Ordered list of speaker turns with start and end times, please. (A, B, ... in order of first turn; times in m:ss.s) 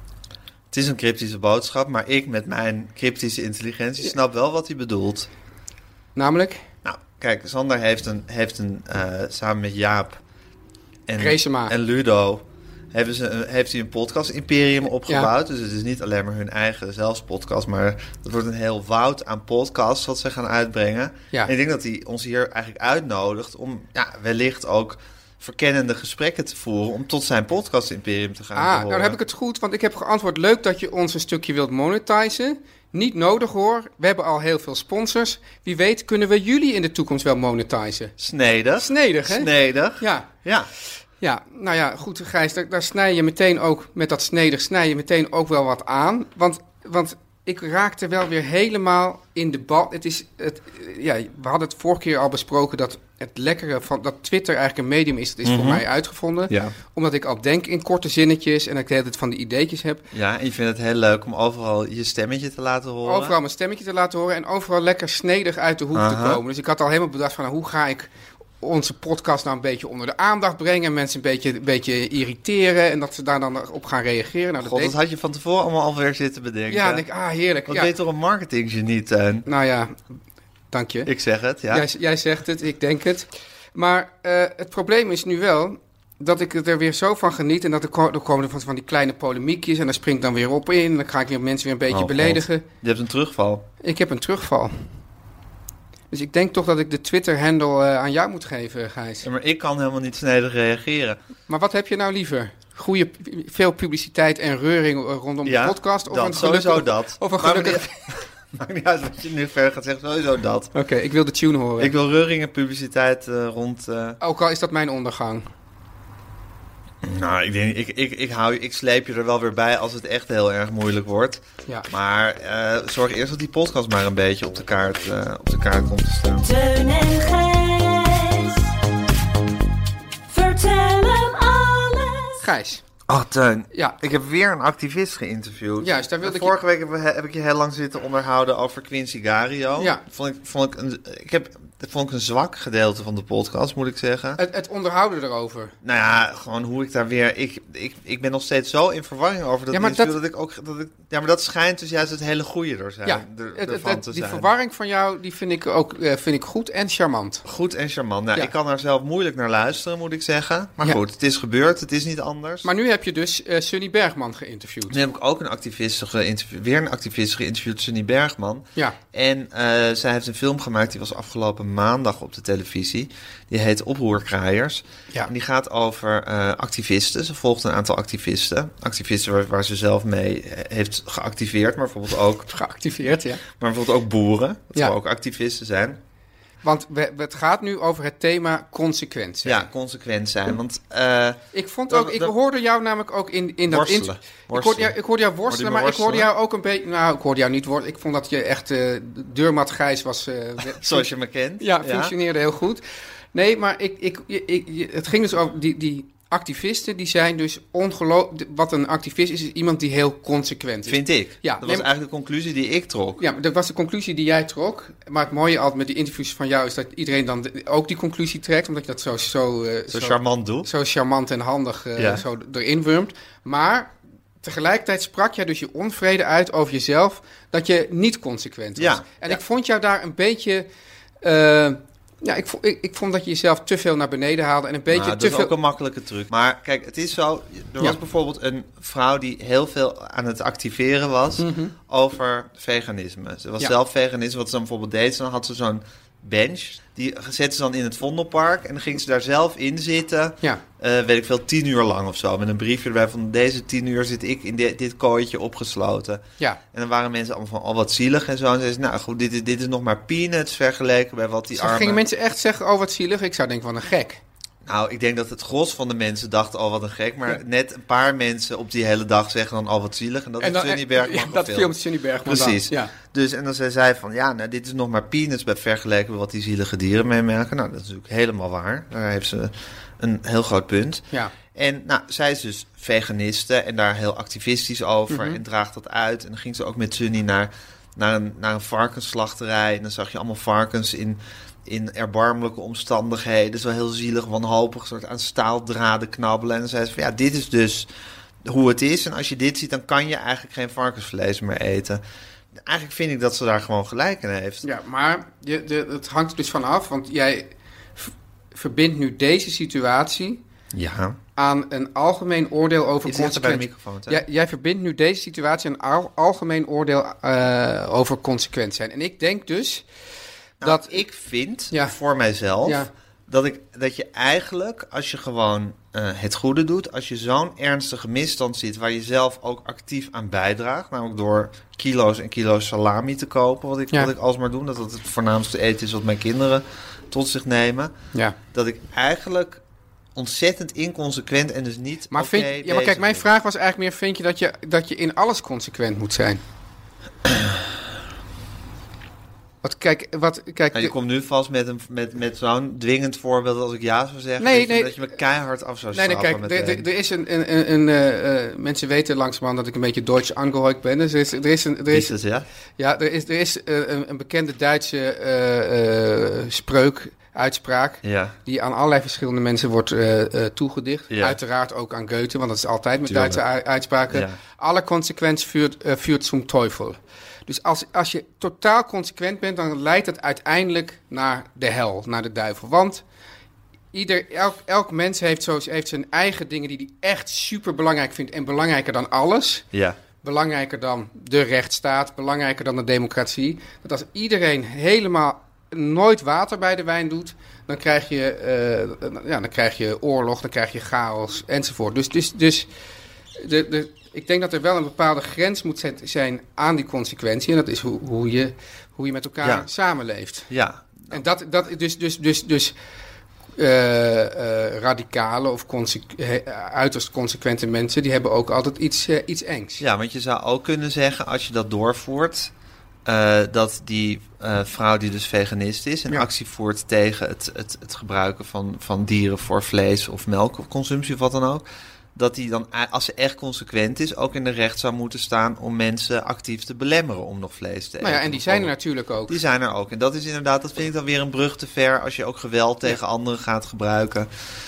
0:00.7-0:05.3 A
0:06.2-0:06.6 B
0:06.8-0:10.2 A
0:11.1-0:29.2 A
0:11.2-0:11.7 B
0:28.6-0:38.1 B
0:38.2-0:40.7 A
0:38.8-0:40.3 B
0:41.2-1:00.0 B
0:55.4-0:55.8 A
0:56.5-0:56.8 A
1:00.1-1:03.4 A
1:03.0-1:08.1 B
1:05.9-1:06.4 A
1:08.6-1:15.0 B
1:14.6-1:17.0 A
1:16.7-1:17.9 B
1:17.7-1:19.5 A
1:19.5-1:20.0 B
1:20.7-1:21.1 B
1:21.1-1:21.9 A
1:21.7-1:32.6 B
1:31.9-1:33.7 A
1:33.8-1:34.9 B
1:36.1-1:39.3 B
1:39.2-1:41.2 A
1:41.5-1:47.9 B
1:45.4-1:50.7 A
1:50.7-1:51.9 B
1:51.8-1:54.2 A
1:54.2-1:55.5 B
1:57.0-2:06.5 A
2:06.6-2:08.5 C
2:10.3-2:12.3 C
2:12.4-2:12.8 B
2:13.1-2:24.4 A
2:15.8-2:16.5 B
2:19.8-2:20.0 B
2:24.4-2:25.7 B
2:25.8-2:34.5 A
2:29.7-2:30.2 B
2:33.0-2:37.4 B
2:37.4-2:42.7 A
2:42.6-2:45.0 B
2:44.9-3:02.5 A
3:02.5-3:03.4 B
3:03.5-3:06.0 A
3:06.6-3:09.7 B
3:09.4-3:12.3 A
3:11.5-3:22.8 B
3:13.7-3:15.0 A
3:15.5-3:16.3 A
3:20.7-3:22.1 A
3:23.3-3:31.9 B
3:30.9-3:33.2 A
3:33.2-3:50.7 B
3:39.9-3:40.7 A
3:42.0-3:42.2 A
3:48.8-3:49.4 A
3:51.2-3:55.6 B
3:54.9-4:22.0 A
4:01.4-4:01.8 B
4:21.6-4:24.2 B
4:24.7-4:57.9 A
4:30.4-4:32.9 B
4:45.1-4:45.4 B
4:58.4-5:02.0 A
5:02.6-5:04.6 A
5:04.6-5:10.4 B
5:10.7-5:11.2 A
5:11.4-5:19.8 B
5:13.0-5:14.2 A
5:20.6-5:37.9 A
5:20.6-5:21.0 B
5:22.6-5:22.9 B
5:38.5-5:39.6 A
5:40.2-5:43.3 A
5:42.1-5:46.4 B
5:47.3-5:47.6 A
5:49.6-5:50.9 B
5:50.7-5:56.9 A
5:54.4-5:55.0 B
5:55.9-6:02.1 B
6:01.9-6:02.5 A
6:02.8-6:23.0 B
6:08.0-6:08.4 A
6:11.1-6:11.4 A
6:13.1-6:13.4 A
6:14.1-6:14.4 A
6:23.9-6:29.6 B
6:29.7-6:30.0 A
6:30.2-6:42.7 B
6:43.4-6:50.5 B
6:49.4-6:49.7 A
6:50.5-6:51.2 A
6:51.1-6:52.8 B
6:53.6-6:59.8 B
6:59.8-7:02.5 A
7:03.1-7:18.7 A
7:18.0-7:19.4 B
7:19.3-7:24.3 A